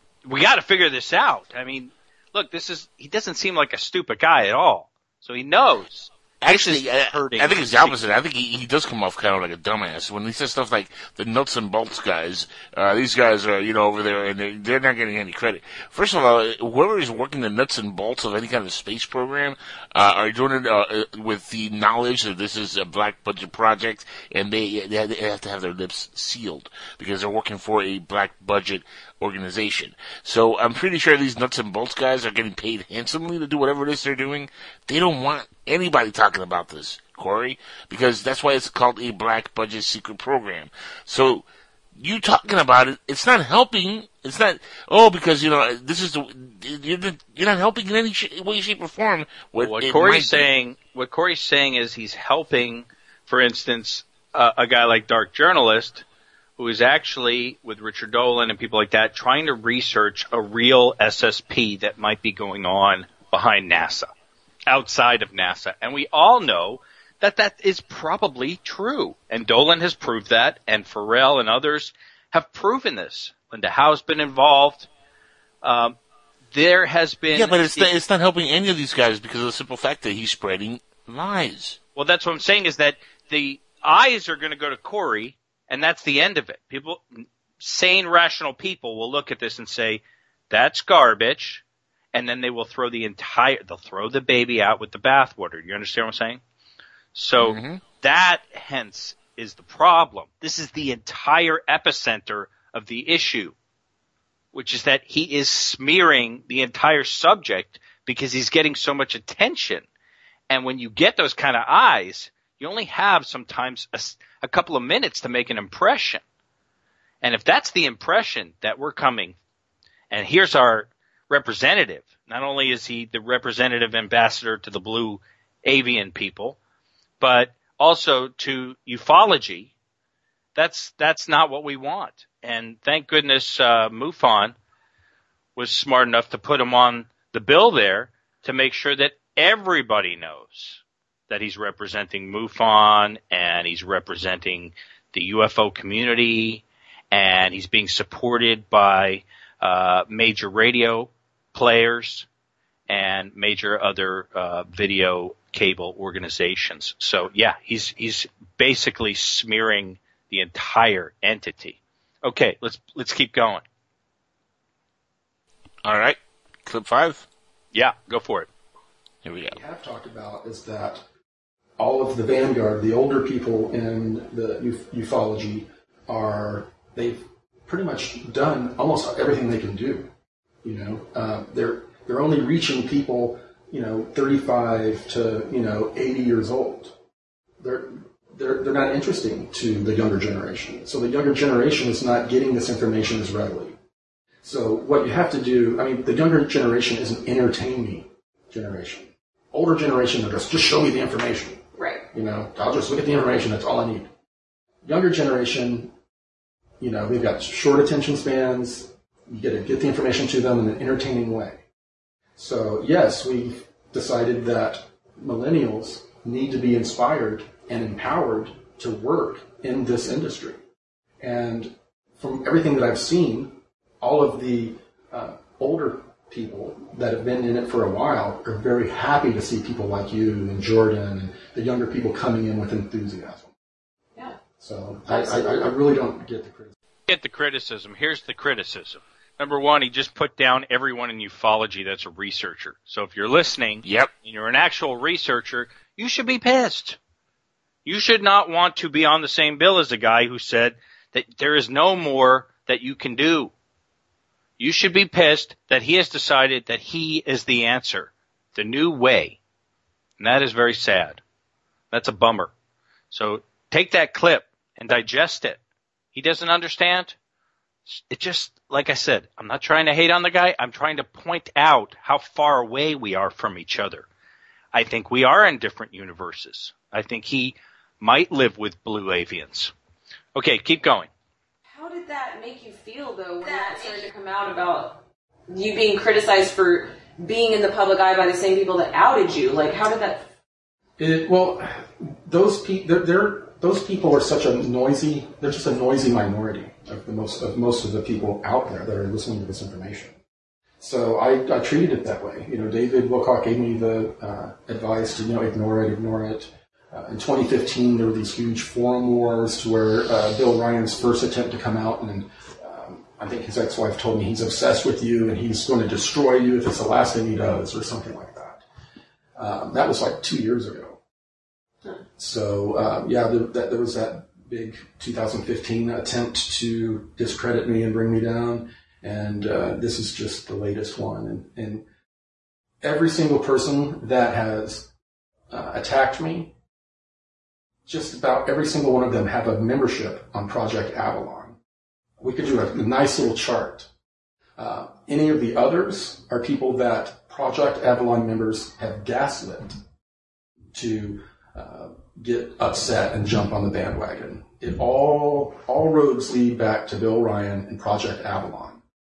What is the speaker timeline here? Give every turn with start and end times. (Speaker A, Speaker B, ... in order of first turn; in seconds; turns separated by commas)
Speaker A: 0.2-8.0, Speaker B: 6.4-50.5, Speaker A: 49.6-56.0, Speaker A: 56.6-64.1, Speaker A: 64.7-74.9, Speaker A: 75.6-76.0, Speaker A: 76.5-77.9, Speaker B: 77.3-81.8, Speaker A: 82.0-87.0, Speaker A: 87.6-91.6, Speaker A: 92.1-96.4, Speaker A: 97.1-103.5, Speaker B: 97.4-97.8, Speaker A: 104.5-109.8, Speaker A: 110.5-116.2, Speaker A: 117.2-119.4, Speaker A: 120.1-126.6, Speaker A: 127.2-129.7, Speaker A: 130.6-134.6, Speaker A: 135.6-152.3, Speaker A: 152.9-163.6, Speaker B: 165.8-167.3, Speaker A: 167.7-168.5, Speaker B: 169.2-169.6, Speaker C: 169.5-171.1, Speaker C: 171.8-180.1, Speaker C: 180.6-186.9, Speaker C: 187.6-193.8, Speaker C: 194.4-201.6, Speaker D: 201.8-202.1, Speaker C: 202.1-204.1, Speaker C: 204.8-205.9, Speaker C: 206.8-211.6, Speaker C: 212.4-220.6, Speaker C: 221.2-233.5, Speaker C: 234.6-236.7, Speaker D: 235.1-235.7, Speaker A: 237.1-247.0, Speaker B: 243.8-244.1, Speaker A: 247.8-253.5, Speaker A: 254.6-259.4, Speaker A: 260.2-261.2, Speaker A: 261.9-262.5, Speaker A: 263.1-265.6, Speaker A: 266.1-267.2, Speaker A: 267.9-274.1, Speaker A: 274.7-279.7, Speaker A: 280.4-281.1, Speaker D: 281.7-290.2, Speaker C: 291.0-300.2, Speaker C: 300.8-318.6, Speaker C: 319.4-321.0, Speaker C: 322.2-331.9, Speaker C: 332.8-334.9, Speaker C: 335.5-336.5, Speaker C: 337.9-341.6, Speaker C: 342.2-343.9, Speaker C: 344.6-349.8, Speaker C: 350.7-358.8